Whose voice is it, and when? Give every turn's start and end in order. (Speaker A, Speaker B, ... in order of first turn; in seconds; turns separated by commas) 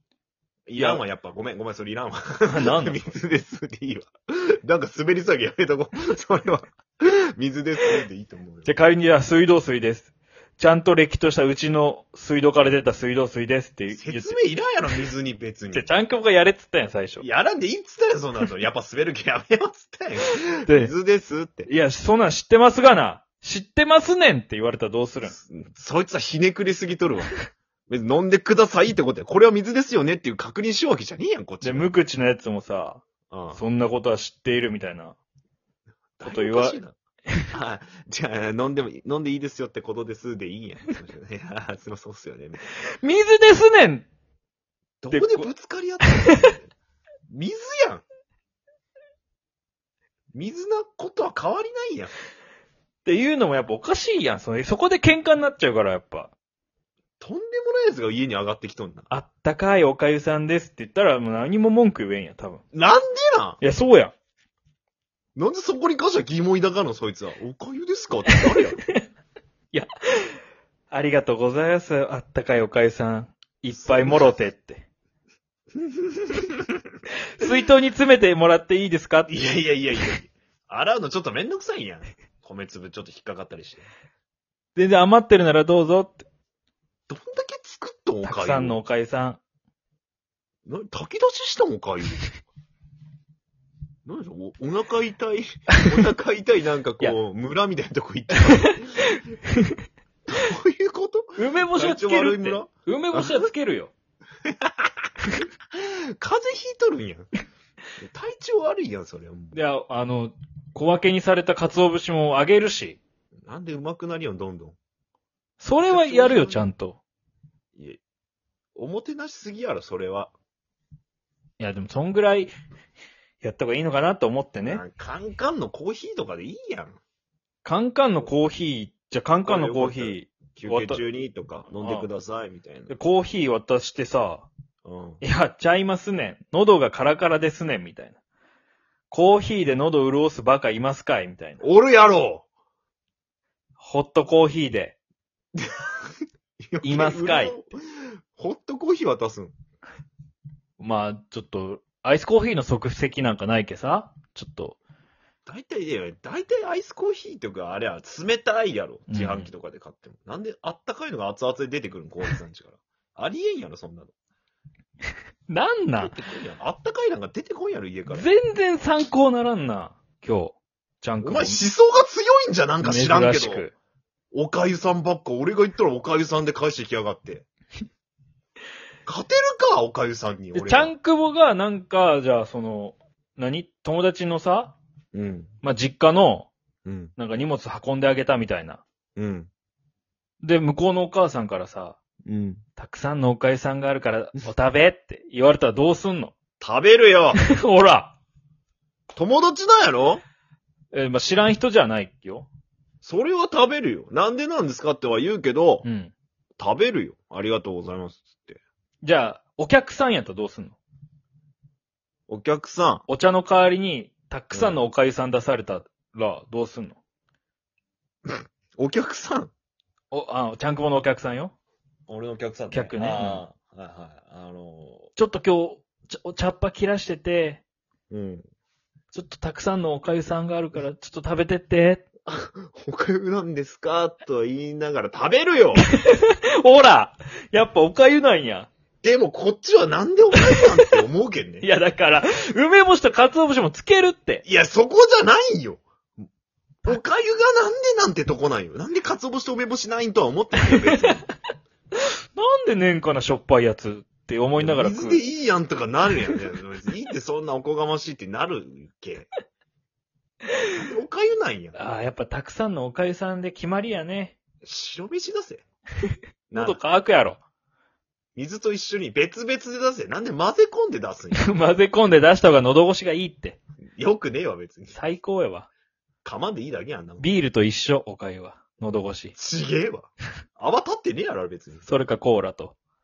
Speaker A: 0.7-8.7, Speaker B: 0.8-1.0, Speaker B: 2.5-3.0, Speaker B: 8.7-14.4, Speaker A: 13.9-15.8, Speaker B: 15.7-17.2, Speaker A: 17.2-21.7, Speaker B: 20.6-20.9, Speaker B: 21.7-25.4, Speaker A: 25.2-27.3, Speaker A: 27.9-31.9, Speaker B: 31.6-33.0, Speaker A: 33.3-33.6, Speaker B: 33.5-35.1, Speaker A: 36.2-37.0, Speaker B: 36.2-36.8, Speaker A: 37.5-42.7, Speaker B: 43.0-44.1, Speaker A: 45.0-46.7, Speaker B: 45.1-45.5, Speaker B: 46.0-46.4, Speaker A: 47.3-48.0, Speaker A: 50.3-52.1, Speaker B: 53.0-56.3, Speaker A: 57.2-59.1, Speaker B: 59.1-62.6, Speaker A: 62.7-63.6, Speaker B: 63.6-64.1, Speaker A: 65.3-68.8, Speaker B: 68.3-69.0, Speaker B: 69.7-70.4, Speaker B: 70.9-74.8, Speaker A: 73.8-74.4, Speaker A: 75.8-76.7, Speaker B: 77.4-79.4, Speaker A: 79.3-83.9, Speaker B: 84.8-86.3, Speaker A: 87.1-88.8, Speaker B: 88.2-89.4, Speaker A: 90.7-92.3, Speaker A: 94.0-99.1, Speaker B: 98.5-99.7, Speaker A: 100.3-103.5, Speaker B: 101.4-103.9, Speaker A: 104.4-104.9, Speaker A: 105.7-107.3, Speaker A: 108.0-109.6, Speaker B: 109.5-113.0, Speaker A: 113.4-114.8, Speaker B: 115.6-117.0, Speaker A: 115.8-116.7, Speaker A: 118.8-120.3, Speaker B: 121.6-122.5, Speaker B: 123.4-124.8, Speaker A: 124.6-127.0, Speaker B: 127.6-131.0, Speaker A: 129.4-132.9, Speaker B: 131.8-132.1, Speaker B: 132.9-134.5, Speaker A: 134.8-135.2, Speaker B: 135.2-138.2, Speaker B: 139.1-141.6, Speaker A: 141.6-142.4, Speaker B: 143.8-144.9, Speaker A: 145.6-145.9, Speaker A: 146.7-147.8, Speaker B: 146.8-147.5, Speaker A: 148.3-149.5, Speaker B: 150.8-154.8, Speaker A: 155.4-164.1, Speaker B: 159.1-159.5, Speaker B: 165.5-166.2, Speaker A: 166.0-168.3, Speaker B: 168.1-171.6, Speaker A: 171.2-173.7, Speaker B: 172.8-173.7, Speaker A: 174.3-177.4, Speaker A: 179.1-180.9, Speaker B: 180.5-184.8, Speaker A: 185.1-185.5, Speaker B: 185.6-186.5, Speaker A: 186.8-187.1, Speaker B: 187.2-188.8, Speaker A: 189.2-189.5, Speaker B: 190.4-192.0, Speaker A: 192.2-192.6, Speaker B: 192.8-196.3, Speaker A: 196.6-197.4, Speaker B: 197.3-198.1, Speaker A: 199.1-200.2, Speaker B: 200.9-202.5, Speaker A: 203.0-205.8, Speaker B: 205.8-206.1, Speaker A: 206.6-208.6, Speaker B: 209.0-210.8, Speaker A: 212.3-213.0, Speaker B: 213.1-217.0, Speaker A: 214.5-214.8, Speaker A: 218.3-219.5, Speaker B: 220.1-221.5, Speaker A: 222.1-225.1, Speaker B: 222.7-223.4, Speaker B: 225.2-227.6, Speaker A: 228.1-228.4, Speaker B: 229.1-232.0, Speaker A: 232.3-235.9, Speaker B: 235.8-238.7, Speaker A: 239.0-241.7, Speaker B: 240.5-240.9, Speaker B: 241.6-244.4, Speaker A: 244.4-245.8, Speaker A: 246.8-251.2, Speaker B: 250.7-251.2, Speaker B: 252.3-255.2, Speaker A: 254.6-259.3, Speaker A: 260.7-261.8, Speaker B: 261.7-264.3, Speaker A: 264.6-265.6, Speaker B: 266.5-267.4, Speaker A: 266.5-266.8, Speaker A: 268.4-271.5, Speaker B: 271.3-273.6, Speaker A: 274.0-275.0, Speaker B: 274.9-275.7, Speaker A: 276.2-277.3, Speaker B: 277.2-279.3, Speaker A: 279.4-281.8, Speaker B: 281.8-282.7